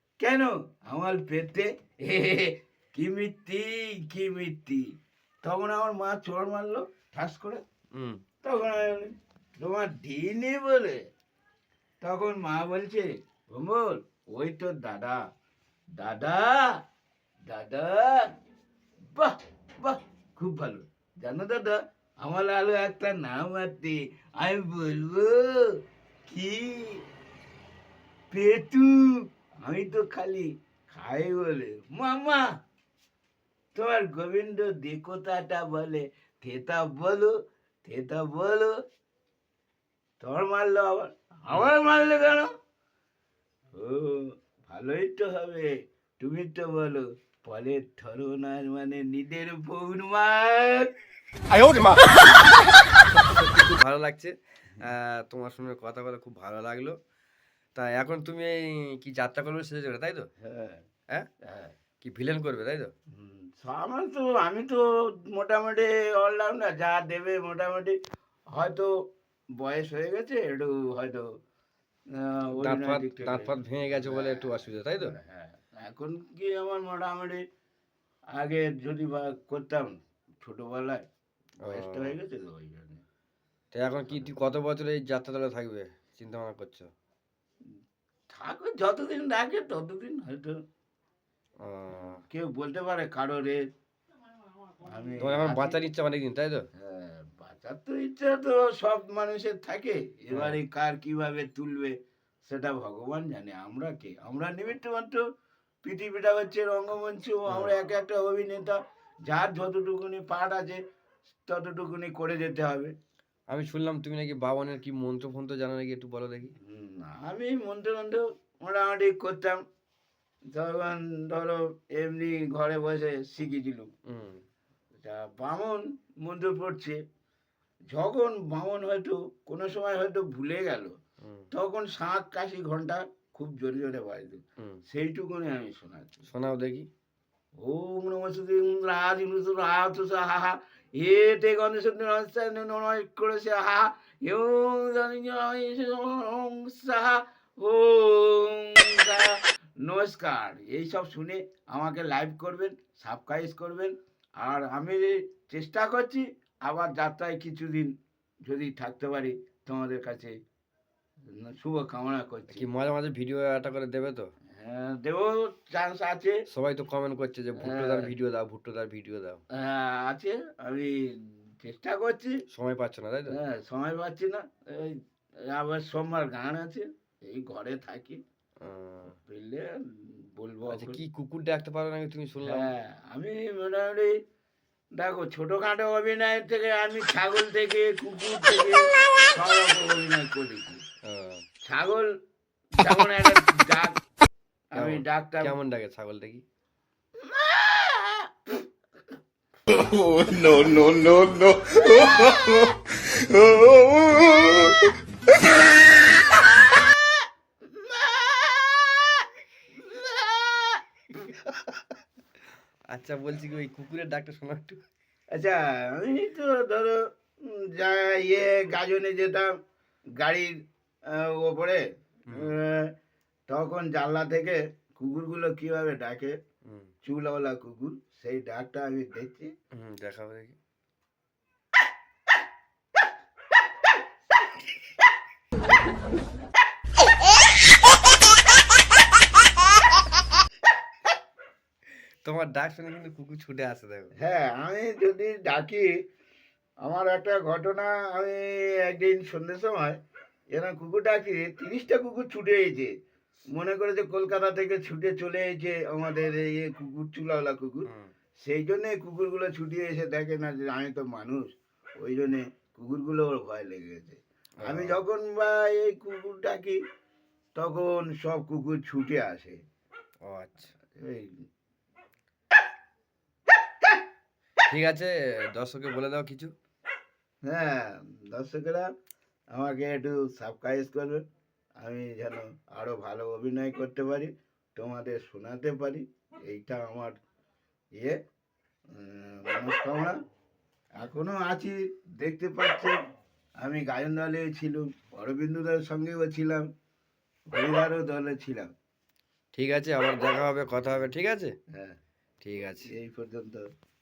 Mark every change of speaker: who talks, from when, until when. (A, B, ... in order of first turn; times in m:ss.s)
0:00.2-0:04.9 A
0:05.4-0:07.6 A
0:07.9-0:08.2 B
0:08.4-0:11.0 A
0:12.0-0:15.2 A
0:16.0-0:16.8 A
0:17.5-0:18.3 A
0:19.0-0:27.0 A
0:28.3-0:29.0 A
0:29.6-0:32.4 A
0:33.7-0:37.3 A
0:37.8-0:38.7 A
0:40.2-0:42.5 A
0:43.8-0:50.9 A
0:51.5-0:52.1 B
0:53.2-0:57.0 B
0:57.7-1:00.3 B
1:00.4-1:00.8 A
1:01.4-1:01.7 A
1:02.0-1:02.9 B
1:03.1-1:08.0 A
1:08.5-1:08.9 A
1:09.6-1:11.2 A
1:12.2-1:17.4 A
1:12.6-1:15.1 B
1:18.3-1:21.0 A
1:21.6-1:23.0 A
1:21.6-1:22.2 B
1:23.7-1:26.9 B
1:28.3-1:30.6 A
1:31.6-1:32.2 B
1:32.2-1:33.6 A
1:34.8-1:35.8 A
1:35.2-1:36.6 B
1:36.8-1:42.0 A
1:40.3-1:40.6 B
1:42.5-1:45.2 A
1:45.8-1:48.8 A
1:47.5-1:47.8 B
1:49.3-1:50.8 A
1:51.3-1:52.9 A
1:53.5-1:56.5 B
1:56.6-1:59.6 A
2:00.5-2:03.9 A
2:04.1-2:04.4 B
2:05.0-2:07.0 A
2:07.9-2:10.9 A
2:11.2-2:11.5 B
2:11.5-2:16.1 A
2:16.3-2:16.9 B
2:17.6-2:37.9 A
2:38.4-2:40.4 A
2:41.3-2:42.7 A
2:42.5-2:44.3 B
2:44.5-2:46.4 A
2:46.5-2:49.4 B
2:47.6-2:48.1 A
2:49.5-2:52.4 A
2:52.5-2:53.4 B
2:53.3-2:58.2 A
2:58.6-2:59.2 B
2:59.0-3:01.0 A
3:00.7-3:02.7 B
3:02.4-3:04.1 A
3:05.0-3:10.8 A
3:11.0-3:11.4 B
3:11.6-3:12.1 A
3:12.8-3:14.0 A
3:14.7-3:15.5 A
3:14.8-3:16.4 B
3:17.2-3:18.3 A
3:19.7-3:24.7 C
3:27.7-3:29.2 A
3:29.8-3:30.8 A
3:32.9-3:34.8 B
3:35.3-3:39.5 A
3:40.2-3:40.5 A
3:41.1-3:42.9 A
3:42.3-3:42.6 B
3:43.5-3:46.3 A
3:46.6-3:46.9 B
3:47.0-3:49.5 A
3:49.7-3:50.6 B
4:02.2-4:04.1 B
4:04.2-4:05.9 A
4:06.8-4:10.0 A
4:10.5-4:12.9 A
4:13.5-4:17.9 A
4:17.8-4:18.1 B
4:18.4-4:26.8 A
4:24.6-4:25.0 B
4:27.6-4:29.6 A
4:30.2-4:30.7 B
4:31.0-4:31.3 A
4:34.6-4:36.5 B
4:37.4-4:38.8 A
4:39.5-4:41.2 A
4:41.8-4:47.2 A
4:48.9-4:50.1 A
4:51.0-4:52.9 A
4:53.6-4:56.6 A
4:57.5-4:58.7 A
4:59.5-5:01.5 B
5:01.7-5:02.0 A
5:02.4-5:02.9 B
5:02.9-5:03.6 A